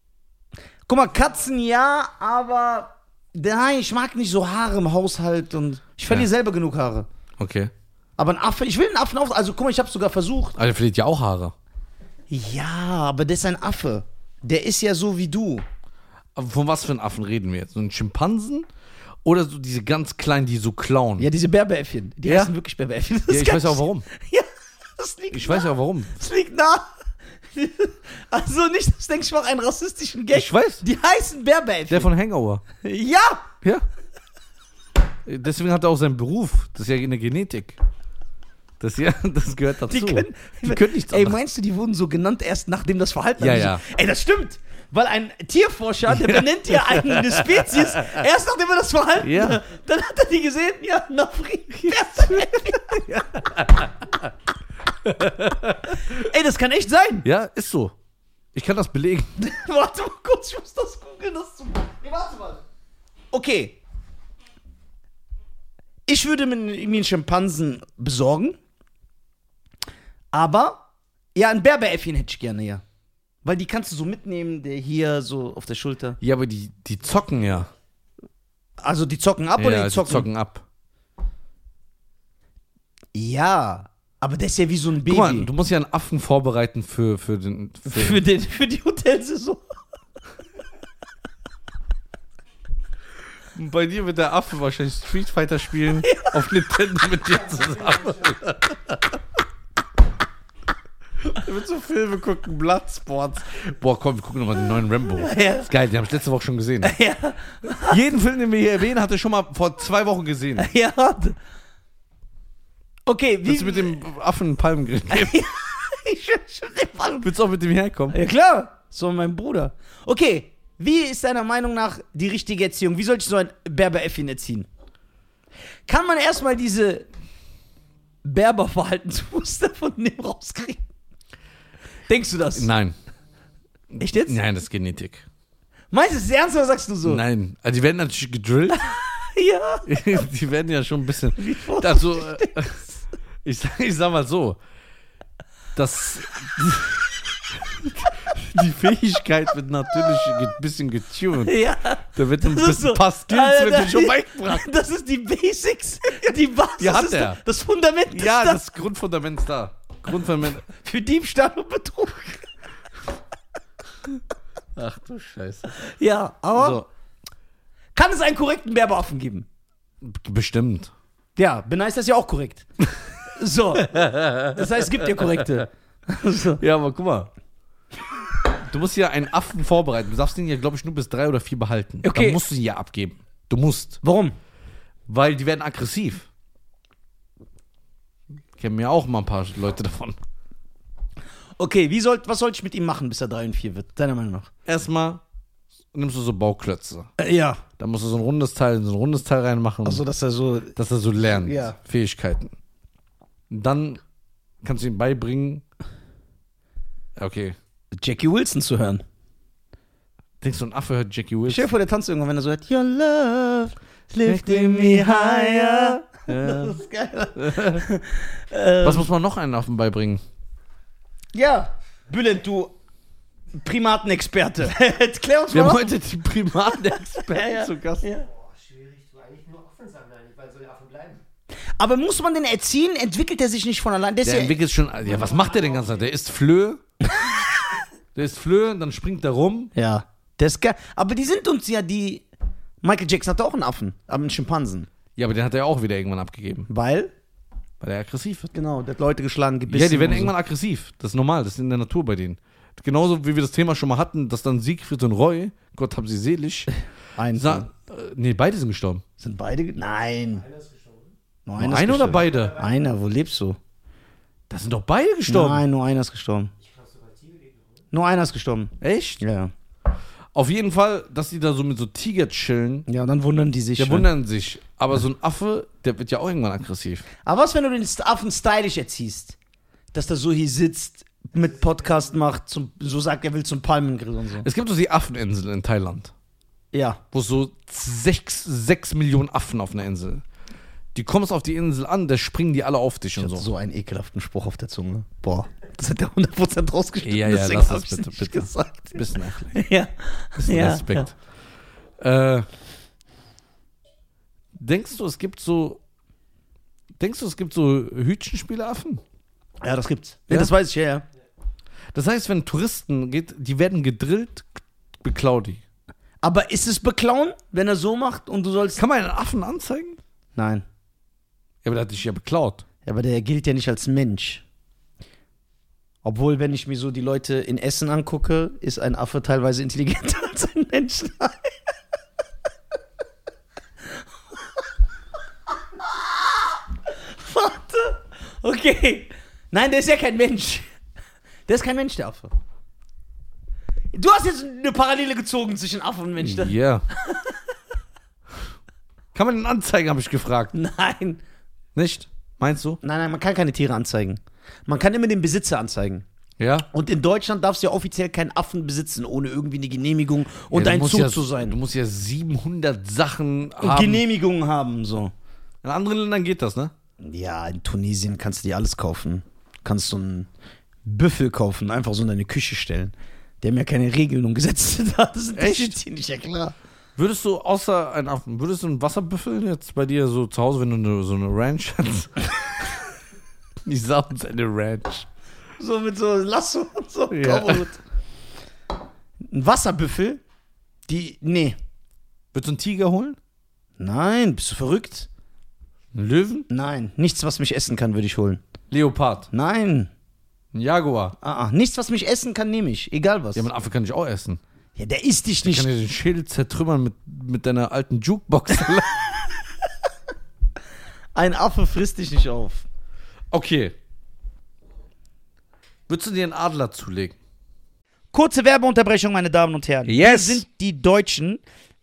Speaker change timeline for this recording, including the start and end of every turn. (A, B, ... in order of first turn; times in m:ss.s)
0:00.9-0:07.1 A
0:07.4-0:07.7 B
0:08.2-0:10.6 A
0:10.6-0:11.5 B
0:12.3-0:15.6 A
0:16.4-0:18.7 B
0:19.2-0:21.3 B
0:21.2-0:26.9 A
0:22.2-0:22.5 B
0:23.3-0:24.0 B
0:25.3-0:26.1 B
0:27.5-0:32.1 A
0:30.3-0:30.8 B
0:31.9-0:32.6 B
0:32.8-0:33.5 A
0:35.2-0:37.8 B
0:38.8-0:41.4 B
0:39.9-0:53.3 A
0:43.4-0:43.8 B
0:46.1-0:48.2 B
0:49.2-0:49.6 B
0:51.9-0:54.3 B
0:55.0-0:56.2 B
0:55.9-0:57.3 A
0:57.2-0:57.9 B
0:58.5-0:59.3 B
0:59.4-1:02.6 A
1:03.3-1:03.8 A
1:06.1-1:08.6 A
1:10.3-1:12.8 A
1:13.4-1:16.2 A
1:16.2-1:17.7 B
1:18.8-1:20.3 A
1:19.6-1:20.6 B
1:23.1-1:25.5 A
1:25.0-1:28.2 B
1:27.9-1:29.8 A
1:33.5-1:39.1 B
1:36.0-1:36.4 A
1:37.6-1:38.2 C
1:41.2-1:46.9 B
1:45.2-1:45.7 A
1:46.8-1:48.0 A
1:47.8-1:50.7 B
1:50.6-1:51.4 A
1:53.0-1:54.0 A
1:53.4-1:55.4 B
1:55.1-1:57.3 A
1:57.2-1:58.2 B
1:58.1-2:04.7 A
2:05.9-2:07.0 A
2:08.2-2:10.8 A
2:12.1-2:12.7 A
2:12.5-2:13.0 B
2:13.9-2:15.2 B
2:14.0-2:14.4 A
2:15.9-2:17.2 A
2:17.0-2:18.8 B
2:18.7-2:19.9 A
2:19.8-2:22.8 B
2:21.4-2:23.0 A
2:23.4-2:24.6 B
2:25.8-2:31.6 B
2:31.4-2:38.6 A
2:32.1-2:34.6 B
2:36.8-2:37.4 B
2:38.1-2:40.6 B
2:40.6-2:42.5 A
2:44.8-2:45.7 B
2:45.8-2:46.8 A
2:46.5-2:46.9 B
2:48.0-2:49.4 A
2:50.0-2:50.9 B
2:51.4-2:52.6 A
2:53.3-2:56.6 A
2:53.8-2:55.6 B
2:56.6-2:57.3 B
2:58.6-3:04.0 B
3:02.0-3:02.4 A
3:04.0-3:04.3 A
3:05.1-3:06.3 B
3:08.5-3:10.2 B
3:11.6-3:14.5 A
3:14.6-3:15.2 B
3:15.9-3:17.1 B
3:17.2-3:17.6 A
3:17.8-3:20.0 B
3:19.8-3:21.7 A
3:20.8-3:22.5 B
3:23.5-3:24.0 B
3:24.6-3:25.6 B
3:27.2-3:27.6 B
3:27.9-3:29.0 A
3:30.4-3:31.7 B
3:31.5-3:39.1 A
3:34.2-3:36.8 B
3:37.4-3:37.8 B
3:38.8-3:40.2 B
3:41.3-3:42.7 A
3:43.5-3:46.0 A
3:45.5-3:48.0 B
3:47.0-3:48.3 A
3:48.2-3:51.2 C
3:51.8-3:54.5 A
3:54.2-3:56.8 B
3:55.1-3:56.0 C
3:58.1-3:59.7 B
3:59.7-4:02.2 A
4:02.8-4:04.9 A
4:05.2-4:06.7 B
4:06.7-4:07.1 A
4:07.8-4:08.5 B
4:08.5-4:10.3 A
4:09.7-4:16.7 B
4:17.1-4:17.7 A
4:17.3-4:19.0 B
4:19.2-4:20.4 A
4:20.3-4:21.2 C
4:21.4-4:23.6 A
4:21.6-4:22.6 B
4:22.2-4:22.9 C
4:24.5-4:25.6 B
4:25.3-4:26.5 A
4:26.6-4:27.8 C
4:27.9-4:29.5 A
4:28.8-4:29.2 B
4:30.3-4:32.8 B
4:32.9-4:34.1 A
4:33.8-4:37.0 B
4:37.2-4:39.4 A
4:39.9-4:44.5 A
4:44.4-4:46.1 B
4:46.7-4:47.0 A
4:47.1-4:50.2 B
4:50.9-4:53.5 B
4:53.2-5:01.1 A
4:57.0-4:59.5 B
5:00.4-5:01.1 B
5:02.0-5:02.5 B
5:04.5-5:05.8 B
5:07.0-5:09.0 B
5:09.6-5:11.0 A
5:11.9-5:15.6 B
5:16.2-5:18.8 A
5:18.8-5:20.0 B
5:20.3-5:20.6 A
5:21.6-5:22.6 B
5:22.8-5:24.4 A
5:26.0-5:31.5 A
5:36.9-5:40.7 A
5:41.5-5:42.3 A
5:43.9-5:47.3 A
5:46.2-5:46.8 B
5:49.1-5:50.5 B
5:50.5-5:51.2 A
5:51.7-5:52.8 B
5:52.8-5:56.0 A
5:56.4-5:56.7 B
5:56.7-6:01.5 A
6:00.5-6:04.0 B
6:03.6-6:05.1 A
6:05.6-6:06.7 B
6:07.0-6:10.3 A
6:10.8-6:16.5 A
6:15.4-6:15.8 B
6:17.0-6:22.9 B
6:23.6-6:25.1 B
6:25.6-6:27.8 A
6:27.1-6:27.7 B
6:29.3-6:30.2 A
6:30.9-6:31.6 A
6:32.3-6:33.2 B
6:33.8-6:35.1 A
6:35.9-6:36.4 B
6:36.5-6:38.4 A
6:38.7-6:39.3 B
6:39.3-6:39.9 A
6:40.5-6:41.2 B
6:41.2-6:43.5 A
6:43.3-6:44.4 B
6:44.8-6:45.7 A
6:45.4-6:49.2 B
6:51.1-6:52.6 A
6:53.3-6:53.7 B
6:55.9-6:57.2 B
6:58.1-7:01.4 A
6:59.8-7:00.4 B